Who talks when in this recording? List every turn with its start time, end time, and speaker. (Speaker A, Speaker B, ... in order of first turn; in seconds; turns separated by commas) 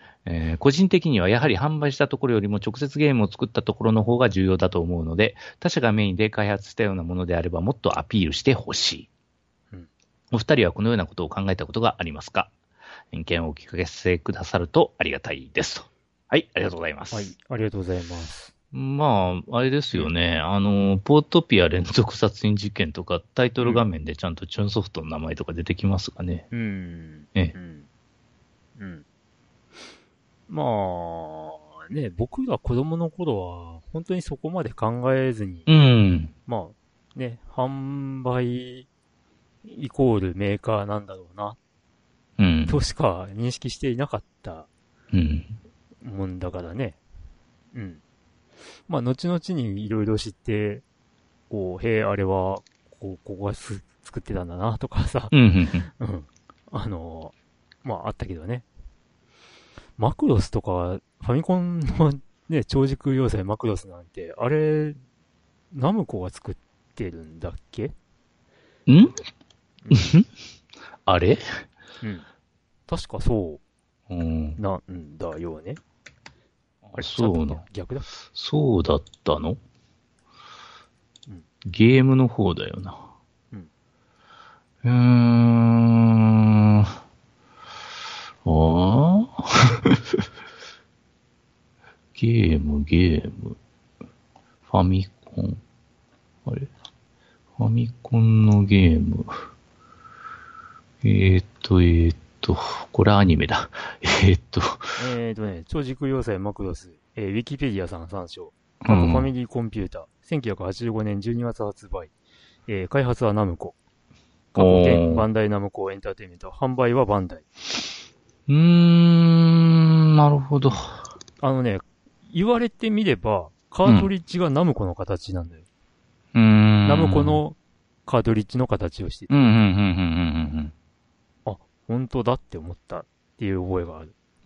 Speaker A: 0.3-9.1, Speaker A: 10.3-12.5, Speaker A: 13.1-17.3, Speaker B: 17.1-18.5, Speaker A: 18.7-26.5, Speaker B: 26.5-27.9, Speaker B: 28.8-29.0, Speaker B: 30.5-35.7, Speaker A: 35.7-36.3, Speaker B: 36.5-38.9, Speaker B: 39.6-41.6, Speaker A: 42.4-42.8, Speaker B: 42.7-44.7, Speaker A: 45.1-45.6, Speaker B: 46.0-47.0, Speaker B: 47.7-48.0, Speaker B: 48.9-50.8, Speaker B: 51.5-55.3, Speaker A: 55.3-55.9, Speaker B: 56.0-58.7, Speaker B: 60.0-65.0, Speaker B: 65.7-67.9, Speaker A: 68.9-69.2, Speaker B: 69.8-70.1, Speaker A: 69.9-70.3, Speaker A: 71.1-71.4, Speaker B: 72.0-72.3, Speaker B: 72.9-73.6, Speaker A: 74.1-74.6, Speaker B: 74.6-75.8, Speaker A: 76.9-77.6, Speaker B: 77.0-78.1, Speaker A: 78.3-79.6, Speaker A: 81.6-83.0, Speaker A: 84.8-86.9, Speaker A: 88.5-90.2, Speaker A: 92.2-93.6, Speaker A: 94.7-95.6, Speaker A: 97.6-99.5, Speaker A: 101.0-105.0, Speaker B: 105.0-112.1, Speaker A: 108.8-109.3, Speaker B: 112.7-113.8, Speaker B: 114.5-117.5, Speaker A: 114.6-115.3, Speaker A: 118.5-121.0, Speaker B: 121.4-125.6, Speaker A: 126.3-127.4, Speaker B: 126.8-129.5, Speaker A: 129.3-130.7, Speaker B: 131.4-134.1